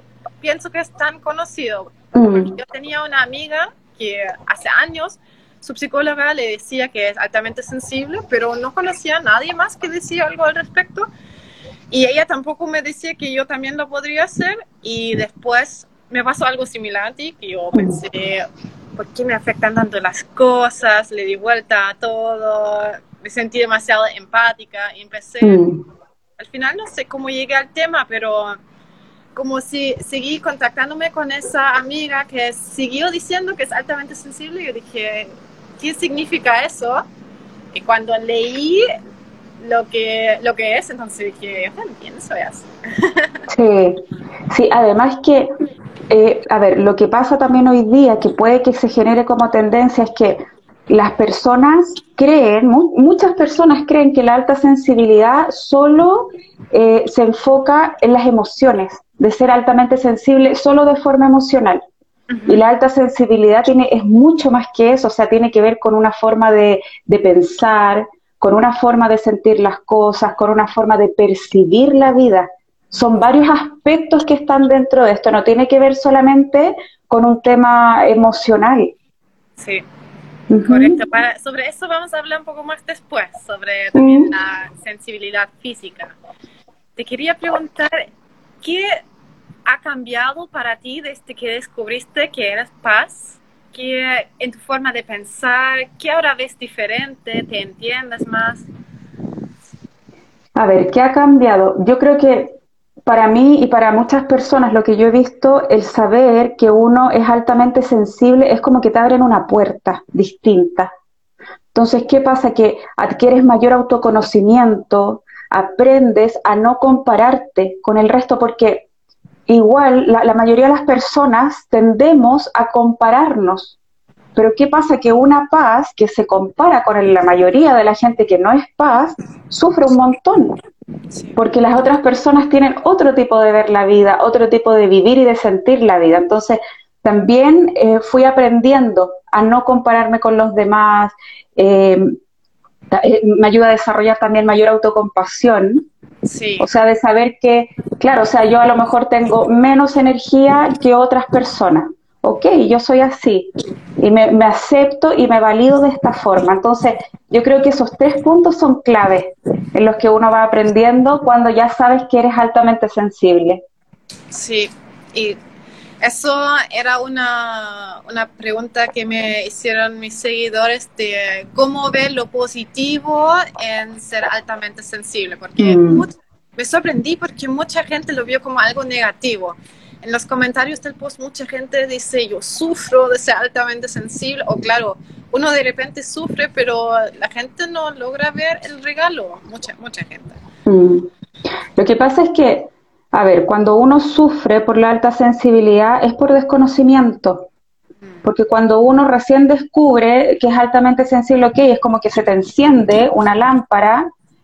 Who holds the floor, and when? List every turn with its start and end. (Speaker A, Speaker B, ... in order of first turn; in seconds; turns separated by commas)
Speaker A: 0.4-11.1, Speaker B: 2.1-2.5, Speaker A: 11.9-25.6, Speaker B: 17.7-18.0, Speaker B: 25.4-25.8, Speaker A: 26.4-28.6, Speaker A: 29.3-37.0, Speaker A: 37.7-38.8, Speaker A: 39.6-43.4, Speaker B: 43.5-45.5, Speaker B: 46.1-61.8, Speaker A: 62.3-62.6, Speaker B: 62.5-78.9, Speaker A: 79.6-79.8, Speaker B: 80.5-81.0, Speaker A: 80.7-86.2, Speaker B: 83.9-84.3, Speaker A: 87.0-88.1, Speaker A: 88.6-89.0, Speaker A: 89.7-98.6, Speaker B: 100.5-102.5, Speaker B: 103.0-110.9, Speaker B: 111.7-118.9, Speaker B: 119.5-123.8, Speaker B: 124.3-130.6, Speaker A: 131.1-131.4, Speaker B: 131.3-142.2, Speaker B: 142.9-145.9, Speaker A: 146.2-146.7, Speaker B: 146.6-163.6, Speaker A: 164.3-165.4, Speaker A: 166.0-190.4, Speaker B: 175.6-176.1, Speaker B: 190.7-191.1, Speaker B: 191.8-197.5, Speaker B: 198.2-204.1